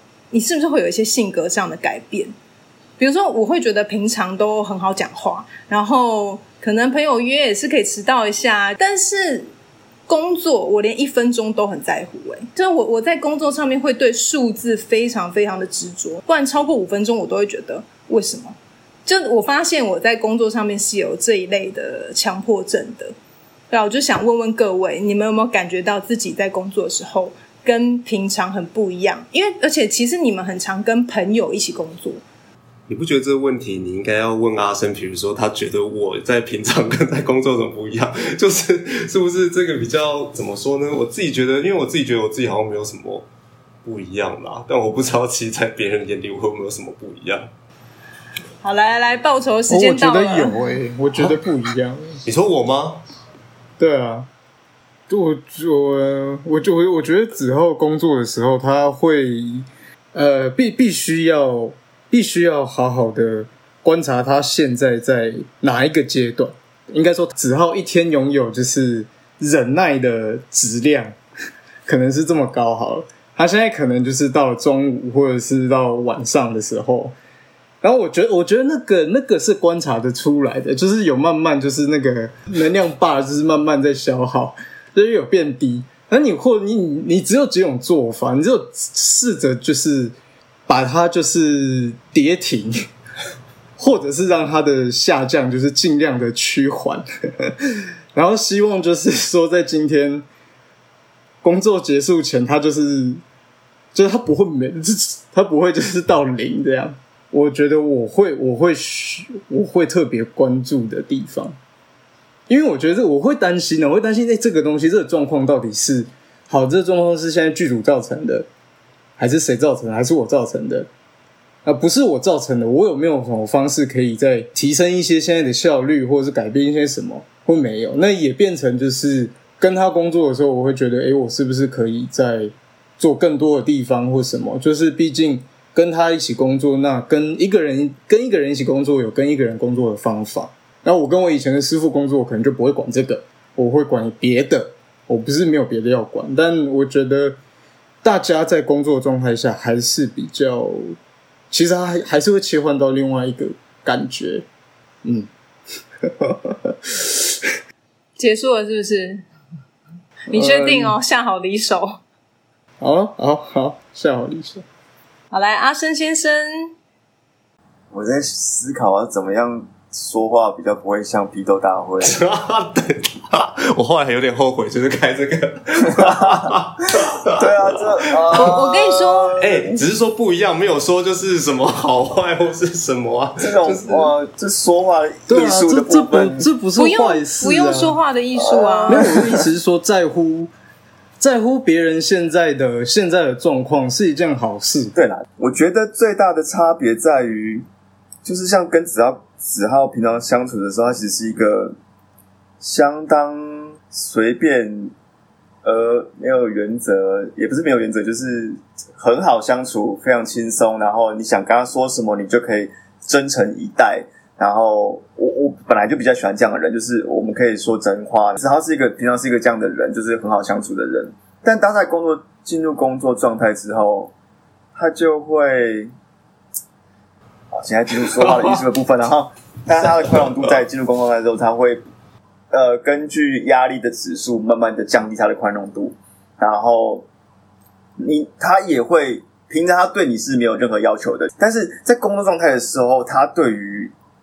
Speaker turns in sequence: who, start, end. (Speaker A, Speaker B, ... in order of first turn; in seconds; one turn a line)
Speaker A: 0.3-2.3
Speaker A: 3.0-9.5
Speaker A: 10.1-23.1
Speaker A: 23.7-32.2
Speaker B: 32.9-43.3
Speaker B: 43.8-47.5
Speaker A: 48.6-50.5
Speaker C: 49.7-52.2
Speaker B: 52.2-53.0
Speaker C: 53.8-54.3
Speaker C: 55.1-71.2
Speaker C: 71.9-77.2
Speaker C: 77.8-90.2
Speaker C: 90.7-92.8
Speaker C: 93.8-97.5
Speaker C: 98.1-100.2
Speaker C: 101.4-103.2
Speaker C: 103.9-111.6
Speaker C: 112.5-118.5
Speaker C: 119.2-120.9
Speaker C: 121.7-147.4
Speaker C: 148.0-151.0
Speaker C: 151.5-154.4
Speaker C: 155.0-155.3
Speaker C: 156.0-157.6
Speaker A: 158.2-159.2
Speaker C: 160.3-160.9
Speaker A: 160.3-162.0
Speaker C: 162.8-164.7
Speaker A: 165.3-166.7
Speaker D: 167.9-172.2
Speaker B: 172.0-177.5
Speaker D: 176.0-176.5
Speaker D: 177.3-179.8
Speaker A: 178.4-179.3
Speaker B: 179.4-184.1
Speaker D: 183.4-186.4
Speaker C: 185.3-188.0
Speaker A: 186.8-189.1
Speaker D: 188.5-189.4
Speaker C: 188.9-190.5
Speaker C: 191.2-194.9
Speaker D: 194.9-197.7
Speaker D: 198.2-201.8
Speaker D: 202.6-204.9
Speaker D: 205.6-224.1
Speaker D: 224.8-225.9
Speaker D: 227.5-231.8
Speaker D: 232.5-237.1
Speaker D: 238.0-243.9